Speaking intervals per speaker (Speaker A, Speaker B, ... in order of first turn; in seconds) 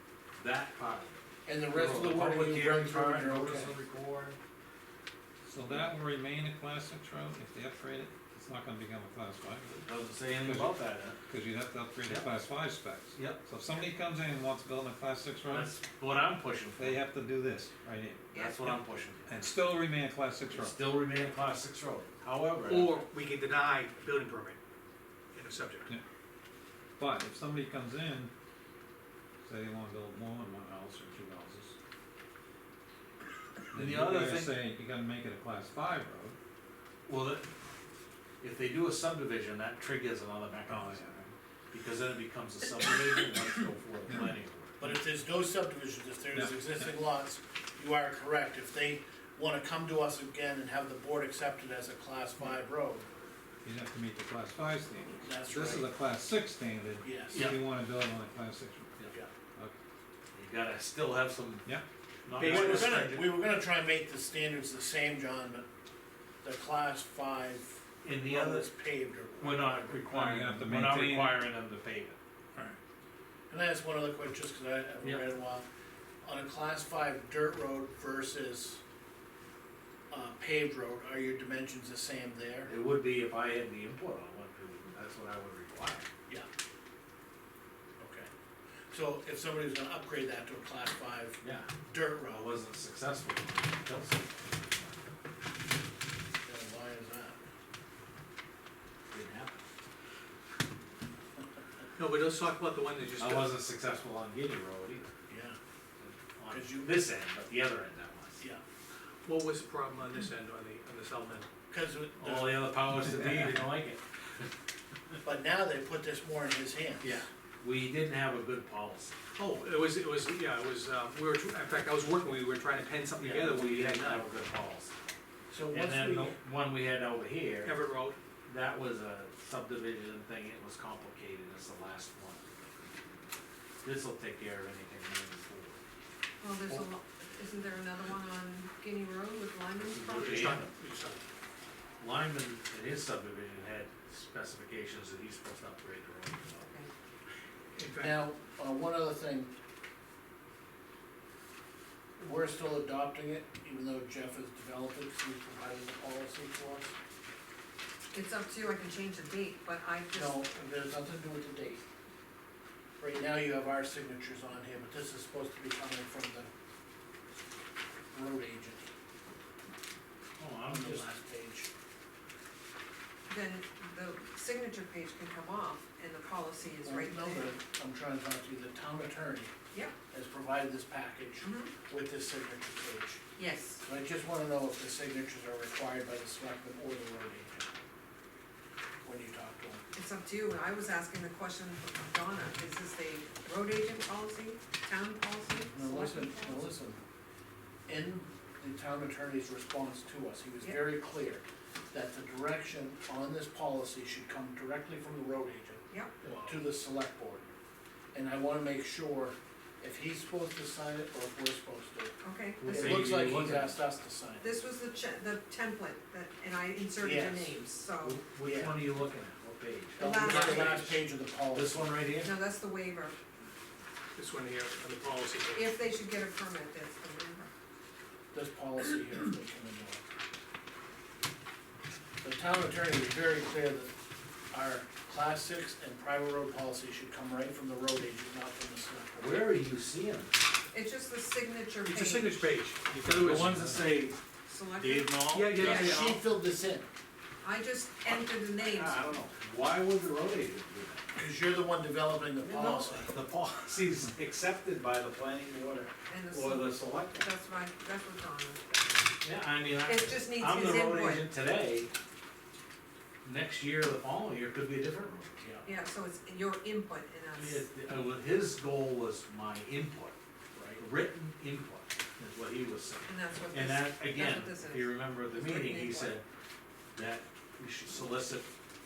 Speaker A: 0.3-4.4, 9.8-11.2, 12.1-12.4, 13.2-13.4, 15.5-17.0, 18.3-19.4, 20.5-22.9, 33.7-34.6, 37.1-37.5, 38.4-41.0, 41.7-44.7, 57.3-57.6, 60.3-61.7, 62.3-63.3, 68.0-68.7, 69.4-72.2, 82.7-86.1, 91.4-91.7, 92.3-95.0, 99.1-99.6, 103.2-105.1, 106.0-108.4, 112.2-114.0, 117.0-119.2, 123.2-125.1, 125.7-127.8, 128.5-133.1, 133.8-135.8, 139.8-140.7, 142.0-146.7, 170.4-171.1, 212.6-213.8, 218.0-222.3, 239.2-240.3, 243.0-244.2, 244.8-246.2, 248.1-251.1, 252.4-257.3, 259.2-261.9, 263.2-265.5, 267.4-270.2, 270.8-276.2, 276.9-278.5
Speaker B: 1.5-3.8, 44.8-53.1, 55.2-55.9, 57.0-57.4, 62.4-65.7, 66.4-70.0, 73.5-75.6, 76.2-78.8, 80.1-82.7, 88.0-88.3, 88.9-92.5, 96.4-97.4, 105.3-105.6, 106.5-106.9, 111.7-112.7, 115.2-117.2, 125.5-126.3, 148.0-149.5, 152.2-156.9, 160.1-161.8, 163.0-166.5, 168.1-168.9, 170.7-171.7, 176.8-179.5, 180.1-183.2, 183.8-187.7, 189.0-189.8, 195.7-197.0, 197.9-207.5, 208.1-212.1, 212.7-214.6, 217.0-217.5, 218.4-218.8, 220.0-222.0, 228.3-230.0, 232.2-233.9, 234.5-239.6, 245.6-246.9, 251.2-253.1, 265.4-265.7, 270.5-270.8
Speaker C: 5.5-15.7, 16.8-20.8, 27.0-28.3, 29.4-31.7, 33.7-36.4, 40.7-41.3, 46.3-46.9, 53.6-59.8, 70.1-71.5
Speaker D: 22.7-24.6, 25.3-25.9, 62.3-63.1, 102.0-103.6, 109.2-111.5, 119.4-124.3, 127.6-128.2, 140.1-141.2, 147.8-148.2, 224.2-225.7, 241.8-243.8, 245.3-246.2
Speaker E: 136.4-140.6, 146.6-146.9, 158.1-160.4, 173.3-177.5, 181.4-181.7, 183.4-183.8, 189.9-196.7, 212.2-212.8, 214.4-218.2, 220.0-220.8, 222.2-223.2, 225.5-227.5, 240.7-242.5, 244.5-246.0, 247.4-249.0, 256.1-259.1, 259.8-261.3, 265.6-267.7, 273.1-276.2